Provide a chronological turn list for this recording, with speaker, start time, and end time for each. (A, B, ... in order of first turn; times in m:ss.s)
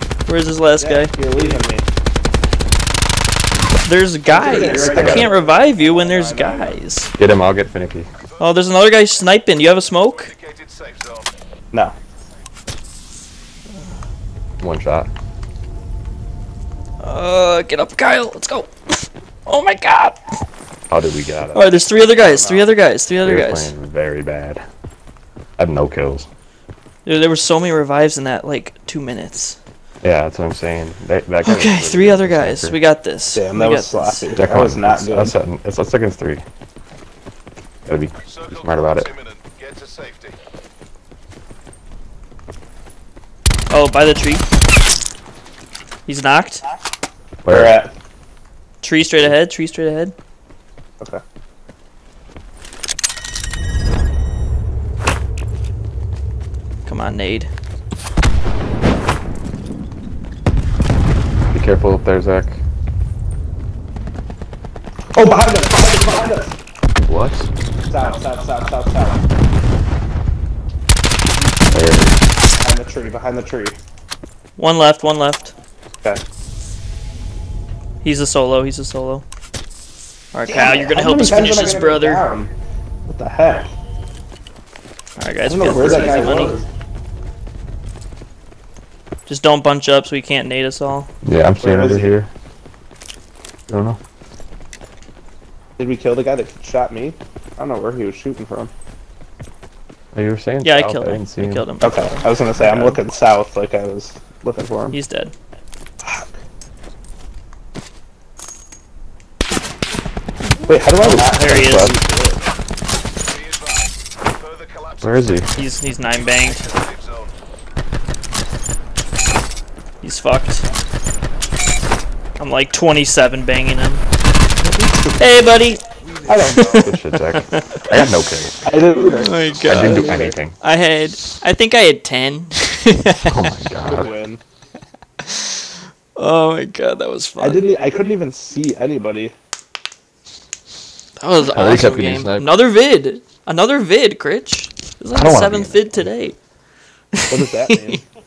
0:00.3-0:01.1 A
0:00.8-0:01.9 B
0:03.8-0:07.1 A
0:04.3-0:06.8 B
0:04.8-0:05.3 C
0:07.2-0:08.1 C
0:08.4-0:10.3 A
0:10.0-0:11.3 D
0:14.6-0:15.1 C
0:17.0-0:20.2 A
0:20.9-0:21.8 C
0:21.5-0:23.7 A
0:22.2-0:22.7 B
0:23.2-0:24.6 C
0:25.6-0:26.3 C
0:27.0-0:29.6 A
0:30.0-0:32.8 C
0:31.4-0:34.3 A
0:33.3-0:35.3 B
0:34.4-0:36.4 C
0:37.9-0:39.1 C
0:38.3-0:40.4 D
0:43.7-0:44.5 A
0:46.1-0:46.6 A
0:47.4-0:47.8 C
0:47.5-0:47.9 B
0:48.8-0:50.1 A
0:56.8-0:57.5 A
1:01.5-1:02.6 C
1:05.2-1:06.6 B
1:07.0-1:07.5 C
1:07.9-1:09.3 B
1:11.7-1:12.2 C
1:12.6-1:13.8 B
1:14.6-1:15.5 A
1:18.0-1:19.2 A
1:20.3-1:22.3 A
1:20.5-1:22.5 B
1:23.1-1:23.7 B
1:25.2-1:26.6 A
1:25.5-1:26.7 B
1:29.3-1:31.1 A
1:31.2-1:32.3 C
1:31.6-1:32.1 B
1:33.7-1:34.0 C
1:35.8-1:38.7 B
1:40.1-1:41.7 C
1:40.6-1:43.0 A
1:41.8-1:45.0 B
1:44.9-1:45.4 A
1:46.0-1:46.3 B
1:50.5-1:51.9 A
1:50.7-1:52.4 B
1:51.0-1:52.0 C
1:53.3-1:57.3 D
1:55.0-1:55.5 C
1:55.5-1:56.7 A
2:00.0-2:00.7 A
2:02.4-2:04.0 A
2:04.6-2:05.5 B
2:05.2-2:05.8 A
2:06.2-2:07.0 B
2:06.4-2:07.0 A
2:06.8-2:08.7 C
2:07.5-2:08.1 A
2:08.6-2:10.4 B
2:09.0-2:13.4 A
2:09.6-2:10.6 C
2:13.2-2:14.1 C
2:13.8-2:14.4 B
2:15.2-2:17.6 A
2:17.4-2:19.4 B
2:21.2-2:26.4 A
2:21.5-2:22.5 C
2:25.2-2:26.1 C
2:27.2-2:28.0 A
2:27.3-2:28.0 B